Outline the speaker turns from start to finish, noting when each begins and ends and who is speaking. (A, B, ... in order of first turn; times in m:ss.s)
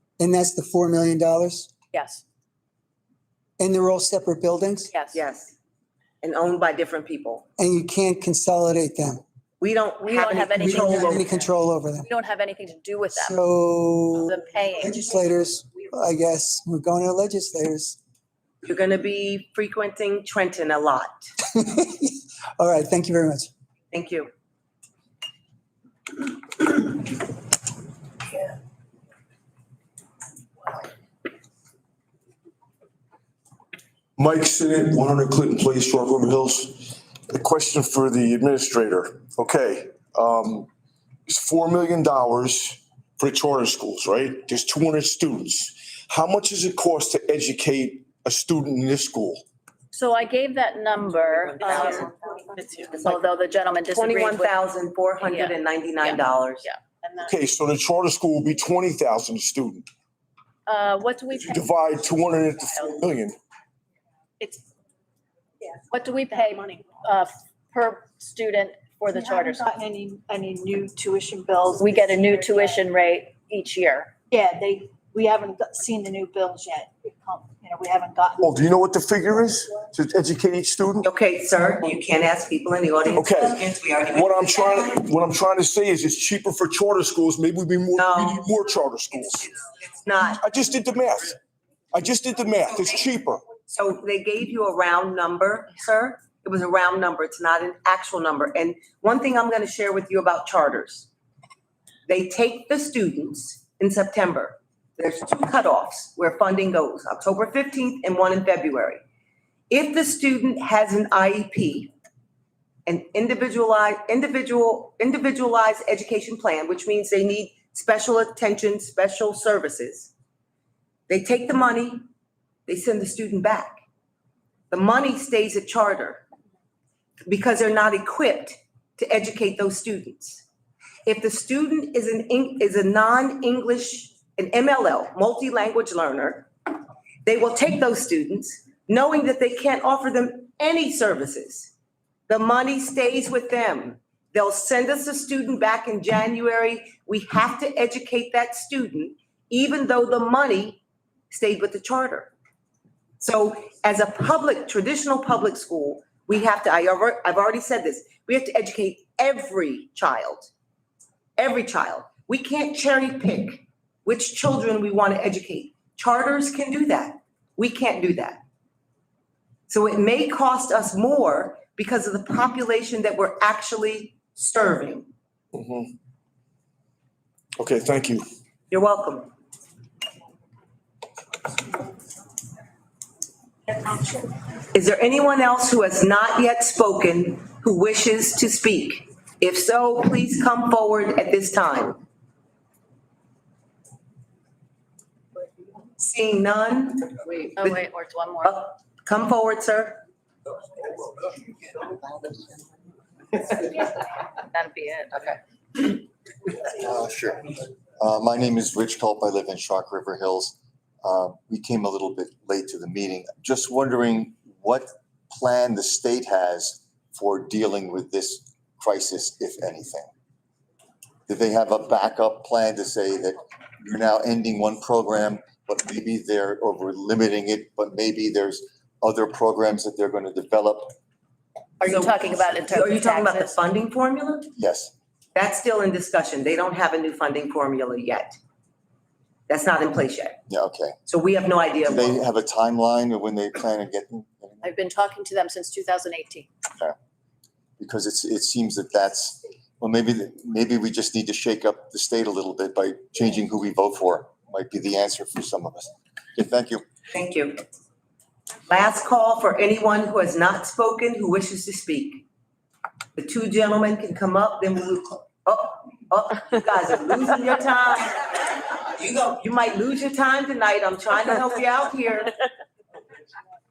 0:00.2-0:01.7 A
0:01.9-0:02.2 B
0:03.6-0:04.9 A
0:04.9-0:05.2 B
0:05.1-0:05.6 C
0:06.2-0:07.5 C
0:07.6-0:09.2 A
0:09.6-0:11.2 C
0:10.0-0:11.5 B
0:10.6-0:12.1 A
0:12.0-0:13.4 B
0:13.1-0:18.0 A
0:14.1-0:15.2 B
0:18.6-0:21.3 C
0:21.5-0:23.5 A
0:23.9-0:24.3 C
0:34.2-0:40.7 D
0:41.3-0:49.4 D
0:49.9-0:54.6 B
0:51.6-0:52.1 C
0:53.9-0:56.6 C
0:55.2-0:57.3 B
0:57.2-0:59.9 D
1:00.7-1:01.8 B
1:01.3-1:03.4 D
1:02.6-1:03.0 B
1:05.9-1:09.7 B
1:06.3-1:06.6 E
1:09.1-1:12.8 E
1:11.8-1:14.1 B
1:14.3-1:18.5 E
1:18.4-1:21.1 D
1:21.0-1:24.0 C
1:23.1-1:29.6 D
1:28.0-1:28.4 C
1:29.9-1:30.4 C
1:30.3-1:31.4 D
1:31.9-1:33.5 D
1:33.6-1:41.1 C
1:42.1-1:49.0 C
1:49.7-1:51.9 C
1:52.9-2:00.1 C
2:01.1-2:02.0 C
2:02.7-2:03.8 C
2:04.7-2:06.2 C
2:07.3-2:10.5 C
2:11.0-2:16.5 C
2:17.2-2:21.7 C
2:22.3-2:32.3 C
2:33.2-2:40.5 C
2:41.4-2:48.4 C
2:49.7-2:55.1 C
2:55.5-2:55.9 D
2:57.6-2:58.3 D
2:58.7-2:59.3 C
3:04.7-3:12.0 C
3:16.0-3:17.8 C
3:17.3-3:18.6 B
3:18.4-3:20.0 C
3:24.5-3:25.4 B
3:26.7-3:40.1 F
3:41.3-3:50.9 F
3:51.8-3:53.6 B
3:51.8-3:54.5 C
3:54.6-3:54.9 F
3:55.4-3:58.4 C
3:59.5-4:00.4 C
4:00.5-4:01.0 F
4:01.1-4:02.2 C
4:01.9-4:04.7 F
4:04.6-4:06.5 B
4:07.8-4:16.8 F
4:17.1-4:17.6 C
4:18.7-4:22.2 C
4:23.2-4:28.3 C
4:28.9-4:32.4 C